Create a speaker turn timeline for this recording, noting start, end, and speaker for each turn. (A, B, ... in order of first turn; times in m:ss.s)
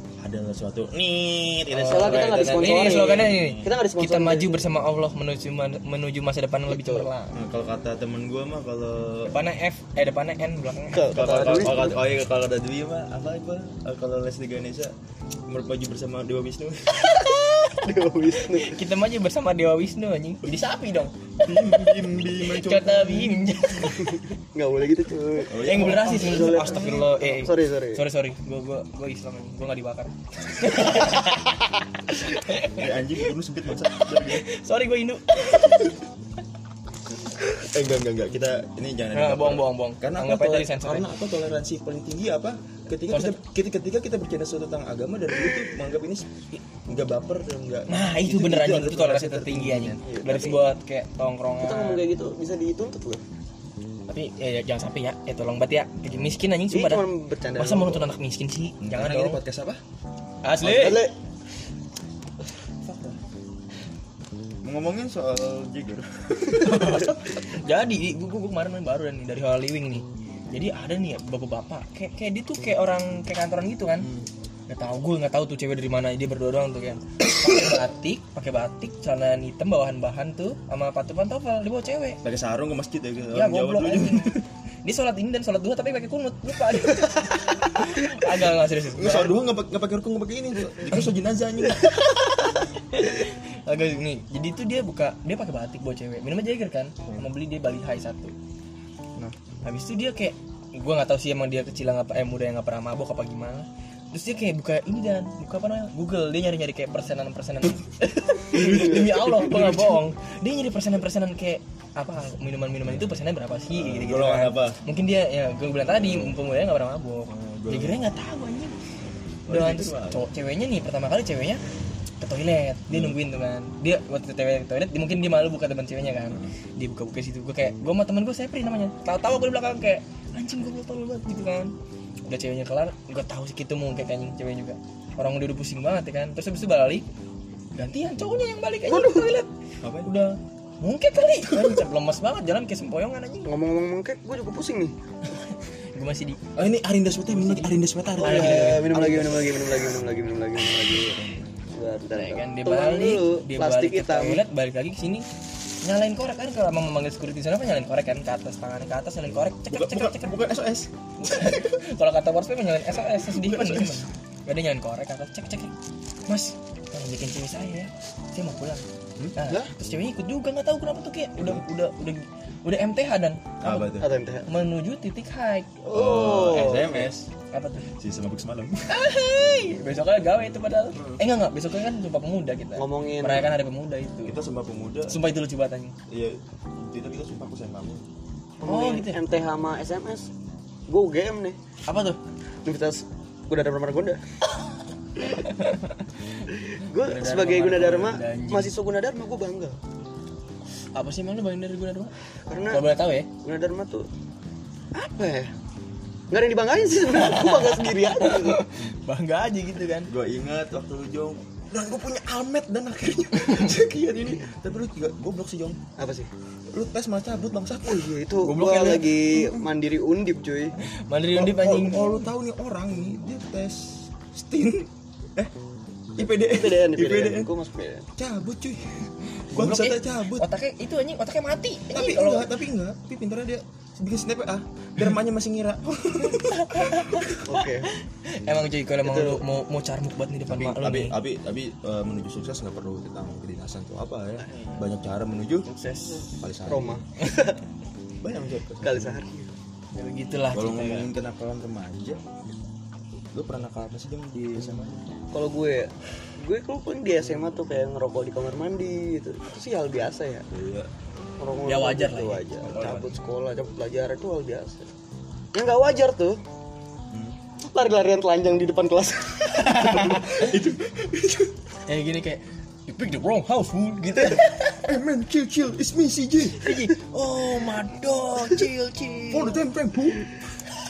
0:00.2-0:03.7 A
0:01.7-0:07.3 B
0:01.9-0:04.6 C
0:06.7-0:07.1 C
0:07.3-0:09.4 A
0:09.3-0:11.7 B
0:10.9-0:12.0 C
0:11.1-0:14.9 A
0:15.5-0:17.2 A
0:17.0-0:17.8 B
0:17.8-0:18.8 C
0:18.4-0:24.2 B
0:21.4-0:23.5 A
0:23.9-0:28.0 C
0:25.5-0:27.2 A
0:25.6-0:31.5 B
0:32.1-0:33.2 B
0:32.7-0:34.5 A
0:33.8-0:36.0 B
0:37.3-0:50.0 A
0:39.1-0:41.1 B
0:43.1-0:43.4 B
0:47.9-0:52.1 B
0:50.0-0:50.6 C
0:51.6-0:53.2 C
0:54.1-0:59.4 B
0:56.1-0:56.4 A
0:56.7-0:58.2 C
0:58.8-0:59.8 A
1:00.4-1:01.1 B
1:00.6-1:01.1 C
1:02.9-1:03.2 B
1:04.6-1:07.1 A
1:06.5-1:14.1 B
1:14.0-1:14.3 A
1:14.7-1:22.2 B
1:22.2-1:24.4 A
1:23.3-1:29.4 B
1:28.9-1:32.0 A
1:31.8-1:38.4 B
1:39.6-1:58.8 B
1:48.5-1:50.0 A
1:52.8-1:54.8 A
1:55.9-1:56.4 A
1:57.3-1:58.0 A
1:59.5-2:00.3 A
1:59.5-2:01.6 B
2:02.2-2:11.7 B
2:02.9-2:03.2 A
2:06.3-2:06.6 A
2:12.3-2:17.1 B
2:17.8-2:19.5 B
2:19.8-2:20.1 A
2:20.0-2:23.5 B
2:21.5-2:21.8 A
2:23.5-2:24.9 C
2:25.3-2:26.4 B
2:26.6-2:28.9 A
2:27.3-2:29.6 B
2:28.2-2:31.2 C
2:30.9-2:31.6 A
2:31.8-2:34.4 C
2:32.1-2:35.3 B
2:35.8-2:40.4 B
2:39.3-2:41.7 A
2:41.2-2:45.7 B
2:43.0-2:44.1 A
2:46.3-2:48.8 B
2:49.2-2:49.7 A
2:49.4-2:53.9 B
2:51.4-2:51.6 A
2:53.6-2:54.2 A
2:54.0-2:54.4 C
2:54.5-2:55.9 B
2:55.9-2:57.0 C
2:55.9-2:57.2 A
2:56.7-2:57.9 B
2:58.0-2:58.9 A
2:58.9-3:04.4 B
3:00.9-3:01.2 A
3:02.8-3:03.5 C
3:04.2-3:05.2 A
3:05.1-3:06.0 B
3:06.1-3:08.0 A
3:08.6-3:10.2 C
3:08.6-3:09.2 B
3:10.9-3:11.6 C
3:11.9-3:12.2 B
3:12.6-3:14.2 C
3:15.3-3:16.1 B
3:16.8-3:19.8 C
3:17.0-3:18.7 B
3:21.0-3:22.1 B
3:22.5-3:22.8 C
3:22.7-3:23.3 B
3:23.4-3:24.0 C
3:25.0-3:25.5 C
3:26.3-3:28.6 C
3:27.1-3:30.1 B
3:30.1-3:35.8 A
3:36.0-3:36.3 C
3:36.7-3:38.1 A
3:37.9-3:40.7 C
3:38.4-3:39.4 B
3:40.8-3:42.3 B
3:41.3-3:45.5 A
3:46.2-3:47.5 A
3:46.2-3:48.0 C
3:48.2-3:50.5 A
3:49.5-3:52.5 B
3:51.9-3:57.5 A
3:56.2-4:01.2 B
3:57.5-3:57.9 C
3:59.0-3:59.4 C
4:00.5-4:05.7 A
4:04.5-4:04.8 B
4:05.7-4:06.3 B
4:06.4-4:07.0 A
4:06.7-4:07.6 C
4:08.2-4:09.1 A
4:08.8-4:09.5 C
4:10.0-4:11.1 B
4:10.5-4:12.2 A
4:13.3-4:15.1 A
4:15.3-4:20.4 C
4:20.5-4:20.9 A
4:21.4-4:24.8 C
4:21.6-4:23.0 B
4:22.6-4:23.2 A
4:25.6-4:26.4 C
4:27.1-4:27.4 A
4:27.7-4:30.4 C
4:29.6-4:30.4 B
4:29.8-4:31.5 A
4:31.9-4:34.8 B
4:34.8-4:36.7 A
4:36.6-4:39.6 B
4:39.3-4:40.3 A